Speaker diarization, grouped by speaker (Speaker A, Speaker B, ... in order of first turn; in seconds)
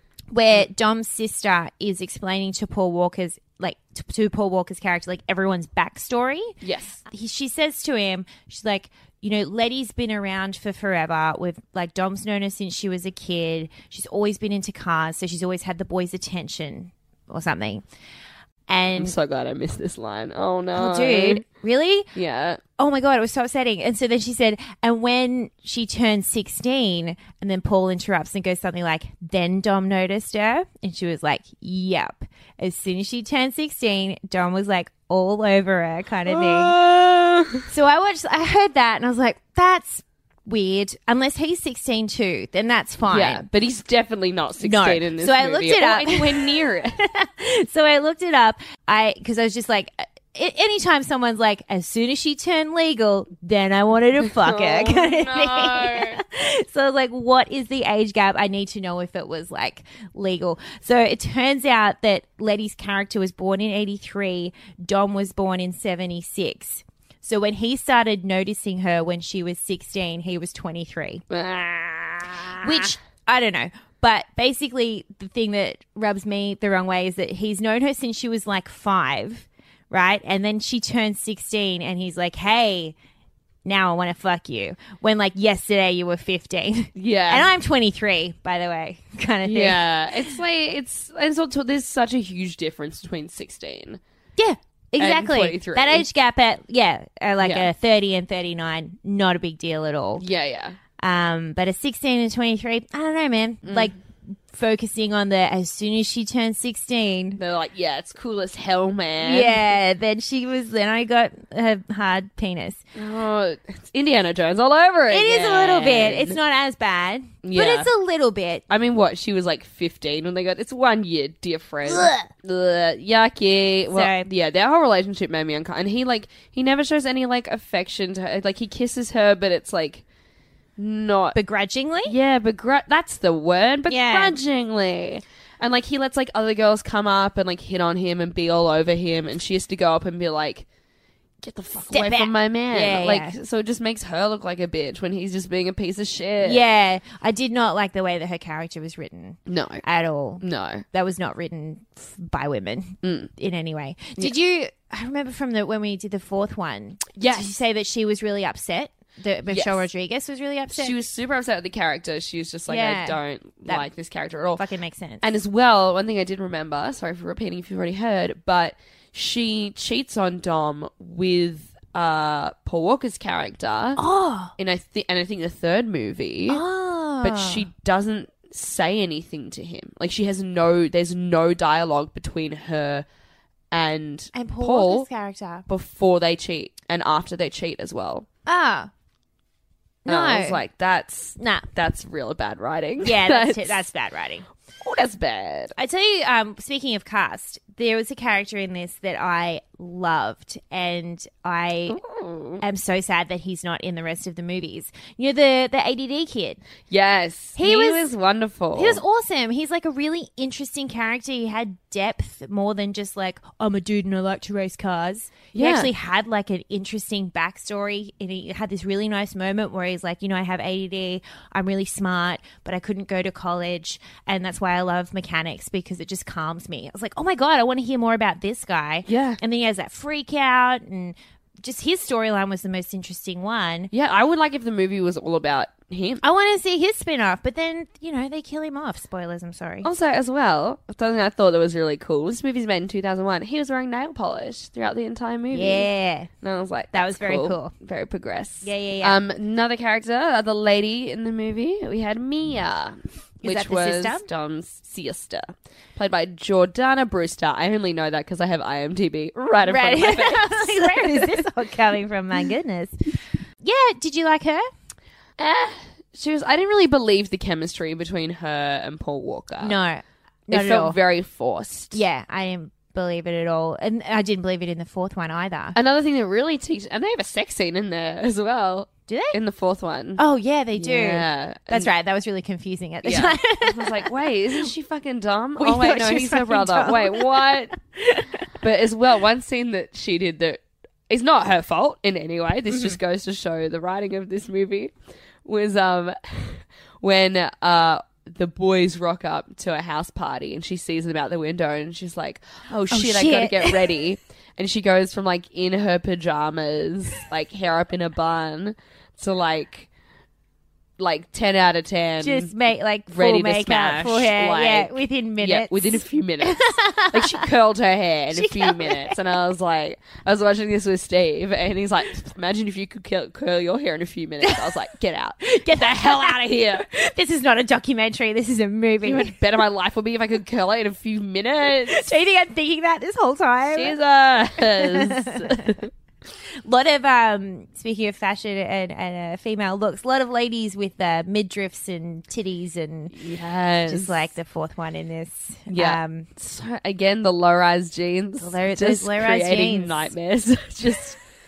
Speaker A: 0.3-6.6, 7.1-17.8, 18.7-19.1, 20.7-22.1, 22.8-36.8, 37.7-43.4, 44.6-71.2, 72.6-82.9, 83.6-90.3, 94.4-100.2, 101.0-107.4, 109.2-112.8, 115.1-118.6, 121.9-122.3, 123.9-124.2, 131.3-132.1, 133.9-134.4, 141.9-143.4, 146.4-160.9, 162.7-163.9, 164.6-165.2, 174.0-174.5, 176.5-177.7, 184.3-185.6, 188.4-188.9, 190.0-190.6, 191.4-191.7, 193.0-194.4, 195.8-202.0, 202.6-206.6, 207.6-208.1, 208.8-233.9, 236.2-239.9, 245.5-246.3, 246.9-247.7, 248.6-249.2, 253.4-254.2, 259.6-262.9, 263.6-264.7, 269.6-271.0, 271.9-275.8, 279.1-279.4, 280.2-284.1, 285.6-288.4, 292.7-293.0, 302.9-303.8, 312.2-317.5, 318.4-319.2, 325.4-329.4, 331.9-333.9, 334.6-335.8, 336.6-343.2, 343.9-346.3, 348.4-350.1
Speaker B: 6.6-7.0, 19.0-21.4, 22.1-22.6, 36.3-37.7, 43.1-46.9, 54.2-56.2, 71.3-72.9, 87.0-87.5, 89.4-94.0, 95.0-96.1, 97.4-97.7, 100.2-100.8, 103.6-103.9, 107.4-109.6, 112.9-116.4, 117.4-117.9, 118.7-130.0, 130.8-131.4, 132.1-140.6, 141.4-146.6, 149.5-149.8, 150.4-150.8, 153.0-153.3, 157.2-157.5, 159.5-159.9, 160.7-164.6, 165.2-174.0, 174.6-176.6, 177.2-183.1, 183.7-185.1, 185.7-188.2, 190.1-193.8, 194.8-195.7, 201.9-202.6, 206.9-209.0, 215.5-215.9, 229.1-229.4, 233.9-236.2, 239.8-245.9, 246.4-261.4, 265.4-269.8, 270.5-272.0, 275.7-280.2, 280.8-281.9, 283.0-287.7, 288.5-294.9, 295.4-309.9, 311.0-312.5, 313.1-326.9, 329.1-332.1, 333.7-335.9, 343.1-344.3, 345.7-351.2